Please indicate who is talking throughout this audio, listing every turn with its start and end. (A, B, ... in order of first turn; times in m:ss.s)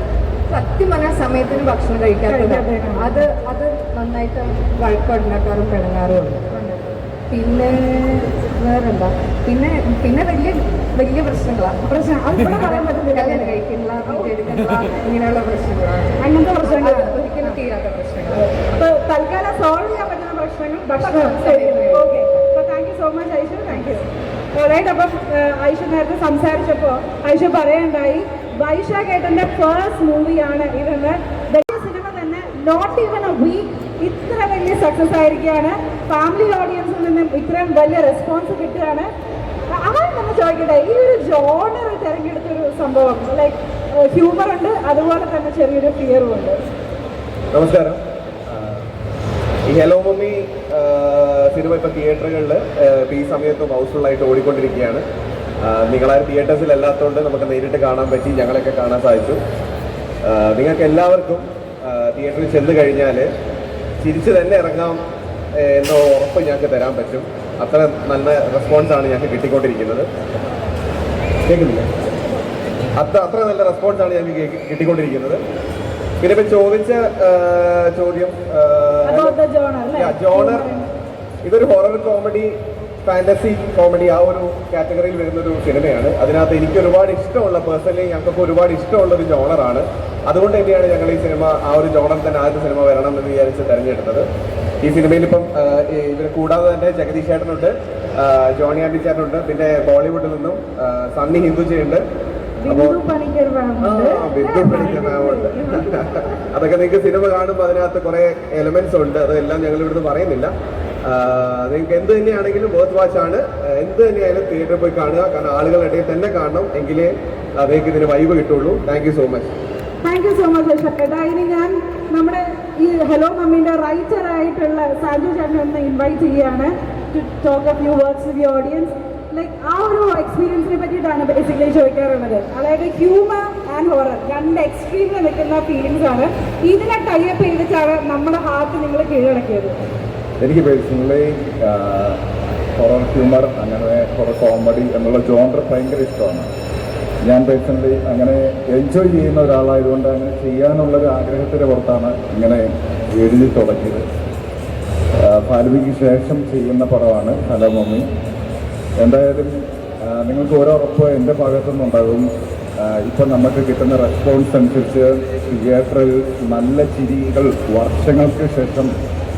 0:00.5-0:18.7 A
0:02.2-0:03.2 B
0:11.8-0:14.3 B
0:16.2-0:17.6 B
0:18.8-0:39.1 B
0:21.0-0:22.2 A
0:39.7-0:46.6 B
0:47.5-0:48.8 C
0:49.7-0:55.0 C
0:55.6-0:59.4 C
1:00.2-1:03.3 C
1:04.0-1:05.0 C
1:05.6-1:10.1 C
1:11.5-1:11.9 C
1:13.0-1:15.4 C
1:16.2-1:19.4 C
1:19.0-1:20.9 B
1:19.9-1:20.6 C
1:21.4-1:22.5 C
1:23.0-1:34.3 C
1:34.8-1:42.0 C
1:42.6-1:45.9 B
1:42.7-1:43.0 C
1:43.8-1:50.5 C
1:51.1-1:59.5 C
2:00.0-2:19.8 B
2:20.4-2:22.2 D
2:22.8-2:26.5 D
2:27.2-2:34.0 D
2:35.2-2:38.0 D
2:39.0-2:39.5 D
2:40.0-2:42.3 D
2:42.8-2:48.9 D